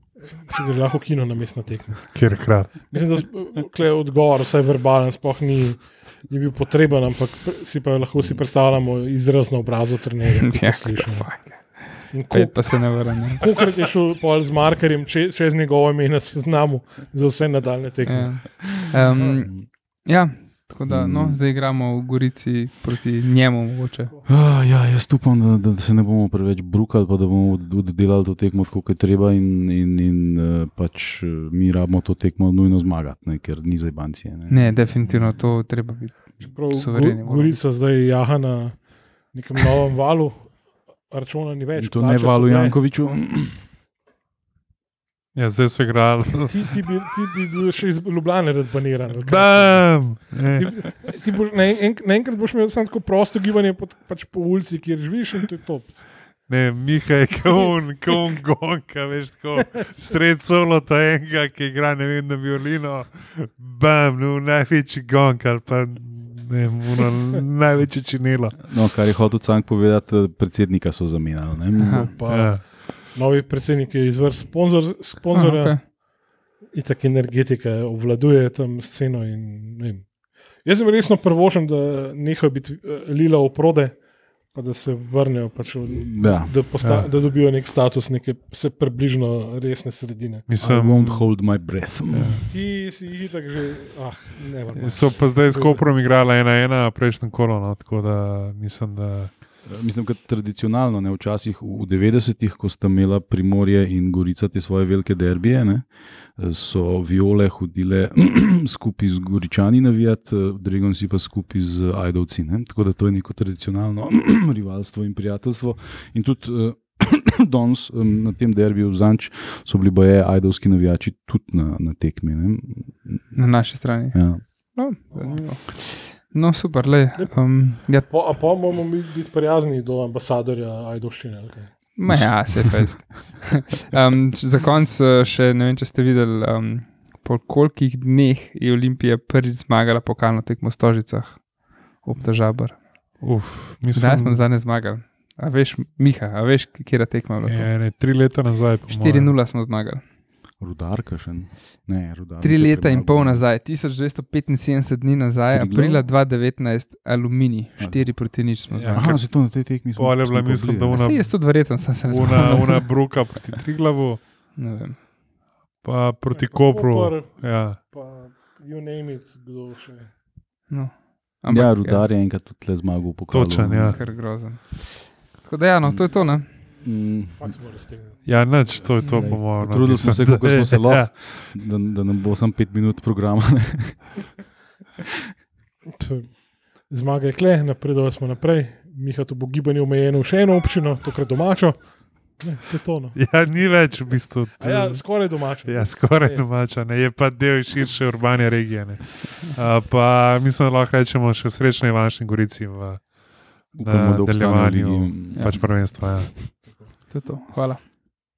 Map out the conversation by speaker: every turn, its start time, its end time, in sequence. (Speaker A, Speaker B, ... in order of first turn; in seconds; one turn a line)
Speaker A: 0.3-2.1
Speaker B: 2.1-2.9
Speaker A: 2.9-11.4
Speaker C: 10.4-13.5
Speaker A: 12.1-12.7
Speaker A: 13.4-18.5
Speaker C: 18.1-24.1
Speaker A: 19.2-19.4
Speaker D: 20.9-21.4
Speaker D: 24.3-35.4
Speaker C: 34.5-37.6
Speaker A: 36.4-38.8
Speaker A: 39.3-40.5
Speaker A: 41.1-42.8
Speaker D: 41.8-43.6
Speaker B: 45.4-46.8
Speaker A: 46.5-50.0
Speaker B: 49.2-50.9
Speaker A: 50.5-56.0
Speaker B: 56.5-68.6
Speaker D: 68.6-72.1
Speaker C: 71.8-72.1
Speaker A: 71.9-75.8
Speaker B: 72.3-72.6
Speaker C: 75.3-75.8
Speaker A: 76.7-80.1
Speaker A: 80.6-84.0
Speaker A: 84.5-90.5
Speaker D: 86.0-86.5
Speaker B: 86.8-87.1
Speaker B: 90.5-91.3
Speaker D: 90.6-92.5
Speaker B: 92.1-92.5
Speaker A: 92.5-95.8
Speaker B: 94.8-99.3
Speaker D: 99.7-123.4
Speaker C: 123.3-128.1
Speaker D: 124.1-124.4
Speaker A: 125.1-125.4
Speaker A: 127.2-131.7
Speaker C: 132.0-141.4
Speaker D: 132.1-133.0
Speaker C: 142.0-142.8
Speaker B: 143.2-144.4
Speaker C: 143.9-147.7
Speaker B: 147.5-149.3
Speaker C: 148.9-150.0
Speaker D: 150.6-153.4
Speaker C: 152.4-159.2
Speaker D: 155.5-156.0
Speaker D: 157.8-158.1
Speaker B: 158.7-159.3
Speaker D: 158.9-161.0
Speaker B: 160.0-161.5
Speaker C: 160.9-162.9
Speaker B: 162.1-164.2
Speaker C: 164.6-165.0
Speaker B: 165.8-167.8
Speaker A: 166.3-170.1
Speaker C: 170.7-172.1
Speaker D: 171.5-174.0
Speaker B: 173.3-174.0
Speaker C: 173.9-176.5
Speaker D: 176.8-177.6
Speaker A: 177.3-178.2
Speaker B: 178.3-181.3
Speaker D: 179.0-184.3
Speaker A: 185.9-193.2
Speaker B: 193.2-203.0
Speaker A: 194.6-196.4
Speaker D: 203.7-206.3
Speaker B: 203.8-206.3
Speaker C: 207.1-207.8